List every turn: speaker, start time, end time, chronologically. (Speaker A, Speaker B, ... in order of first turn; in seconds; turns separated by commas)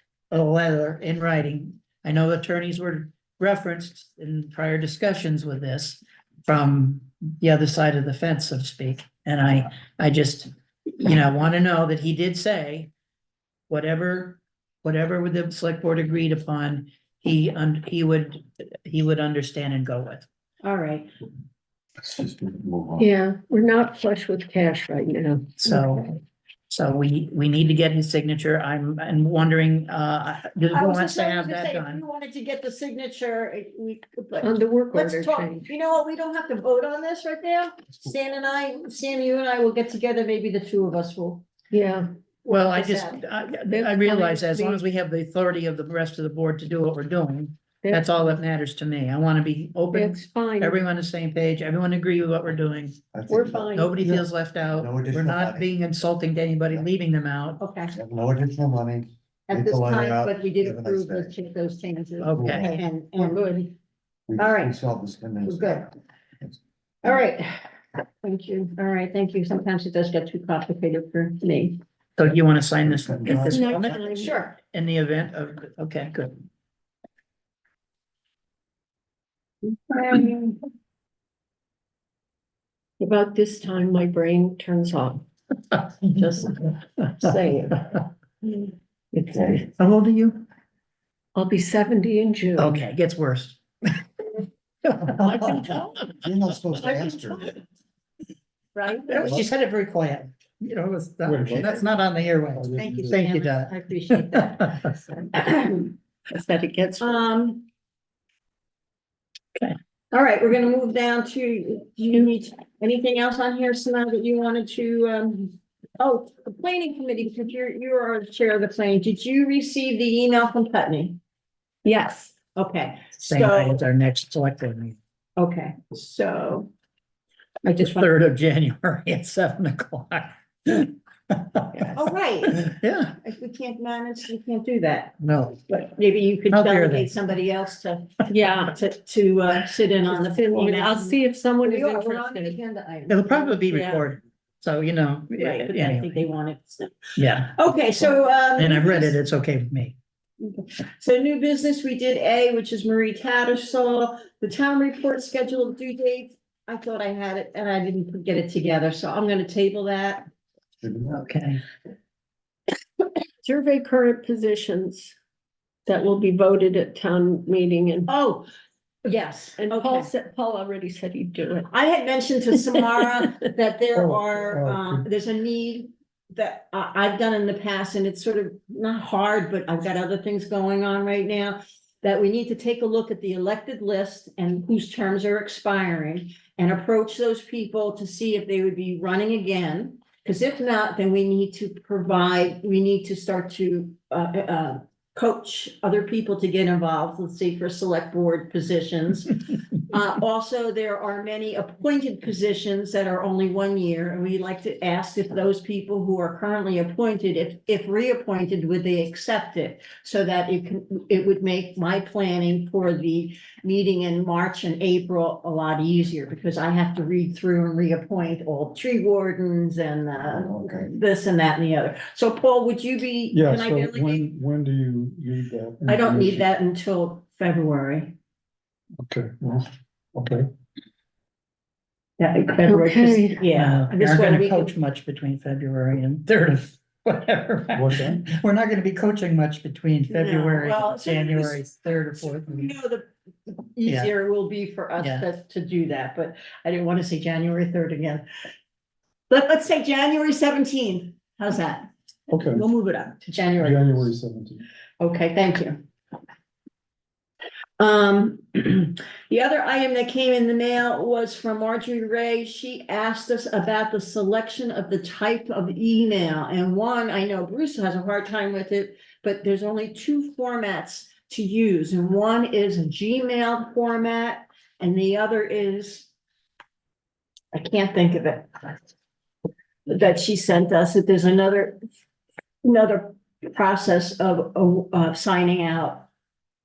Speaker A: 0.3-12.9, Speaker A: 13.7-20.2, Speaker B: 20.6-21.1, Speaker C: 22.0-23.1, Speaker D: 23.0-26.1, Speaker A: 25.6-32.0, Speaker B: 30.7-41.5, Speaker D: 34.4-35.7, Speaker D: 41.7-42.1, Speaker A: 42.5-53.0, Speaker B: 42.5-43.2, Speaker D: 43.7-44.8, Speaker D: 47.8-48.4, Speaker D: 49.9-50.8, Speaker C: 53.1-55.7, Speaker D: 53.3-54.0, Speaker A: 53.7-57.6, Speaker B: 57.6-57.9, Speaker C: 57.9-61.3, Speaker B: 59.5-63.5, Speaker A: 62.2-62.7, Speaker C: 62.3-62.8, Speaker D: 63.2-63.7, Speaker C: 64.3-67.2, Speaker B: 64.4-64.7, Speaker B: 65.5-65.9, Speaker B: 67.0-67.6, Speaker B: 68.2-71.8, Speaker A: 72.2-74.0, Speaker C: 72.8-74.3, Speaker D: 73.3-74.5, Speaker B: 74.1-74.5, Speaker A: 74.7-76.4, Speaker B: 79.9-80.6, Speaker D: 83.0-85.2, Speaker D: 86.1-89.6, Speaker C: 89.3-89.6, Speaker A: 89.7-90.4, Speaker D: 91.3-92.8, Speaker A: 92.6-93.6, Speaker A: 94.9-95.8, Speaker D: 95.2-96.1, Speaker C: 96.1-97.5, Speaker D: 96.9-97.1, Speaker D: 98.8-99.4, Speaker A: 99.1-104.7, Speaker C: 99.2-99.5, Speaker E: 101.2-101.9, Speaker E: 102.5-103.2, Speaker B: 102.8-105.9, Speaker D: 106.3-107.2, Speaker B: 107.0-107.6, Speaker B: 110.1-121.2, Speaker D: 121.8-122.3, Speaker B: 122.5-123.8, Speaker A: 123.2-125.0, Speaker B: 125.4-126.7, Speaker B: 127.6-128.1, Speaker A: 127.7-133.2, Speaker D: 131.7-132.0, Speaker B: 131.9-132.6, Speaker B: 133.2-135.2, Speaker A: 135.2-135.8, Speaker B: 135.7-144.0, Speaker A: 136.5-137.1, Speaker D: 138.3-138.8, Speaker D: 140.0-142.6, Speaker A: 143.1-146.3, Speaker D: 143.7-144.0, Speaker B: 145.3-149.2, Speaker A: 147.2-147.6, Speaker A: 148.6-149.9, Speaker B: 150.4-160.3, Speaker C: 160.8-161.2, Speaker A: 161.1-161.6, Speaker D: 163.4-165.1, Speaker D: 165.8-168.1, Speaker B: 168.1-168.5, Speaker B: 169.0-170.1, Speaker D: 169.6-171.7, Speaker B: 171.7-199.3, Speaker D: 172.5-173.3, Speaker E: 173.9-175.1, Speaker B: 199.9-224.3, Speaker C: 220.2-220.9, Speaker E: 223.3-226.5, Speaker B: 225.8-228.1, Speaker E: 229.0-230.5, Speaker B: 232.2-234.7, Speaker D: 232.6-233.4, Speaker A: 233.5-242.7, Speaker E: 237.7-238.2, Speaker B: 240.1-241.6, Speaker B: 242.2-248.2, Speaker A: 243.8-244.1, Speaker A: 245.0-245.3, Speaker B: 249.3-251.9, Speaker E: 252.3-252.7, Speaker B: 252.5-254.0, Speaker E: 253.5-254.7, Speaker B: 255.0-255.8, Speaker B: 257.8-276.1, Speaker B: 277.5-278.8, Speaker B: 279.9-281.8, Speaker B: 282.6-286.1